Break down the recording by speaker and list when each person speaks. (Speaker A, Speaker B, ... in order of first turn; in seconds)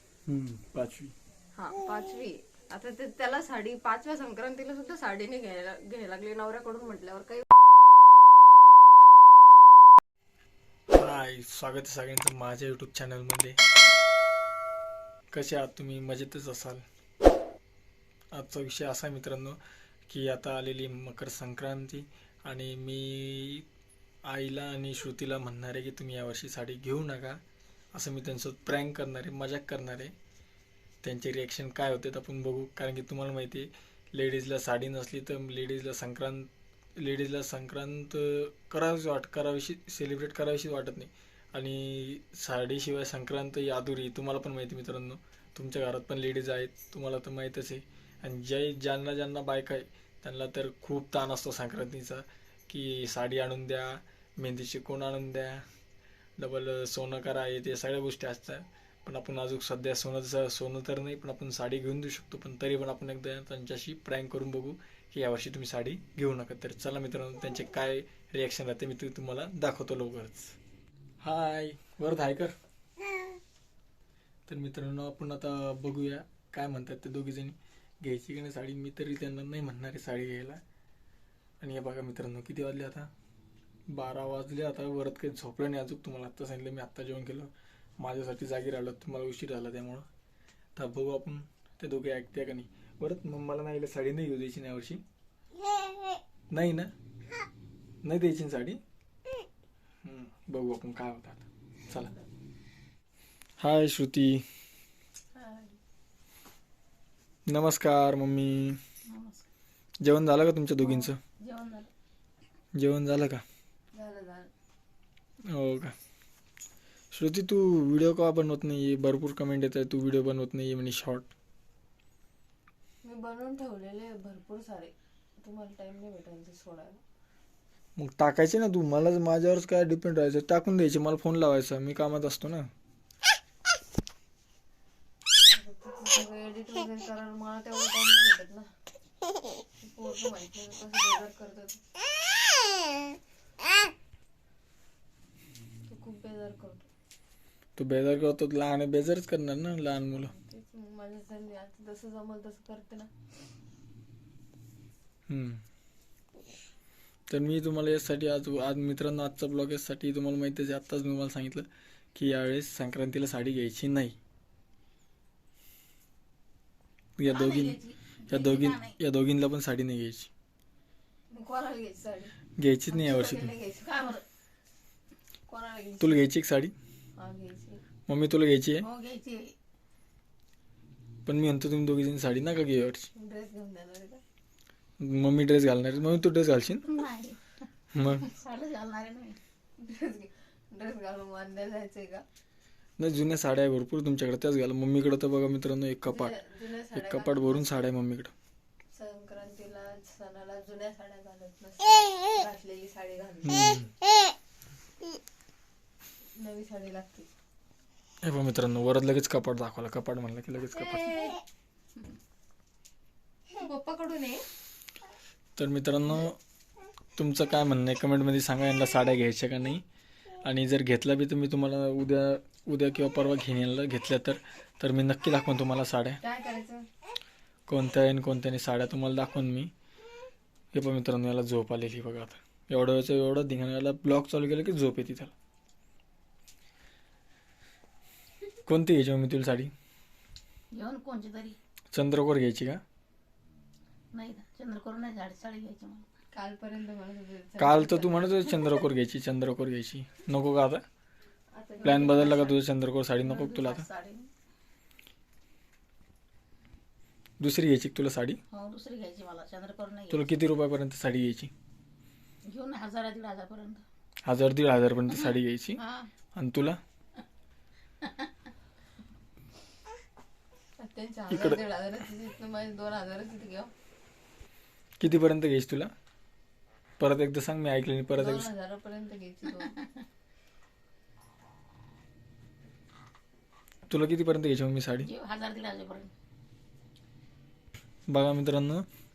Speaker A: 0.3-1.1, 10.9-13.6, 15.3-16.8, 18.3-19.6, 20.1-23.6, 24.3-27.4, 27.9-30.1, 31.0-55.6, 56.4-70.6, 71.2-72.5, 74.5-80.6, 81.6-83.1, 83.9-90.0, 90.8-95.0, 96.5-96.9, 98.0-98.8, 100.0-102.1, 103.6-104.4, 107.5-108.8, 110.0-111.2, 112.7-113.4, 115.5-115.9, 117.1-121.3, 128.0-132.7, 147.8-150.3, 155.3-155.6, 157.3-164.2, 167.2-167.8, 168.3-170.3, 172.6-173.5, 176.0-176.7, 178.1-178.8, 181.2-183.1, 185.0-186.8, 187.9-188.3, 193.0-196.3, 196.9-198.3, 203.4-203.9, 208.2-211.2, 215.6-216.4, 217.2-219.8, 220.4-226.2, 227.7-229.7, 230.7-235.3, 238.7-239.7, 241.9-242.8, 247.6-250.8, 251.8-253.9, 257.4-258.4, 260.1-261.5, 264.2-265.8, 266.3-266.8, 271.3-271.6, 275.0-275.9, 277.0-278.5, 283.9-285.1, 288.1-288.9
Speaker B: 1.6-7.5, 105.3-105.8, 113.9-114.5, 123.0-127.0, 135.5-138.7, 139.8-141.8, 145.9-146.9, 150.2-153.1, 171.3-172.3, 172.9-174.2, 175.5-176.2, 177.2-177.8, 183.2-184.2, 189.8-192.2, 196.0-197.7, 198.9-203.8, 206.3-207.3, 210.7-211.4, 213.6-214.4, 226.2-226.8, 246.3-248.6, 251.5-252.3, 270.8-273.7, 278.1-279.8
Speaker C: 109.1-109.5, 110.8-111.9, 167.2-168.9, 173.8-174.2, 178.8-179.5, 186.8-187.4, 188.2-189.4, 240.7-241.6, 244.1-246.1, 251.8-252.6, 253.2-254.3, 258.5-260.3, 262.5-263.8, 265.8-266.1, 268.0-268.3, 279.5-279.8, 285.0-286.1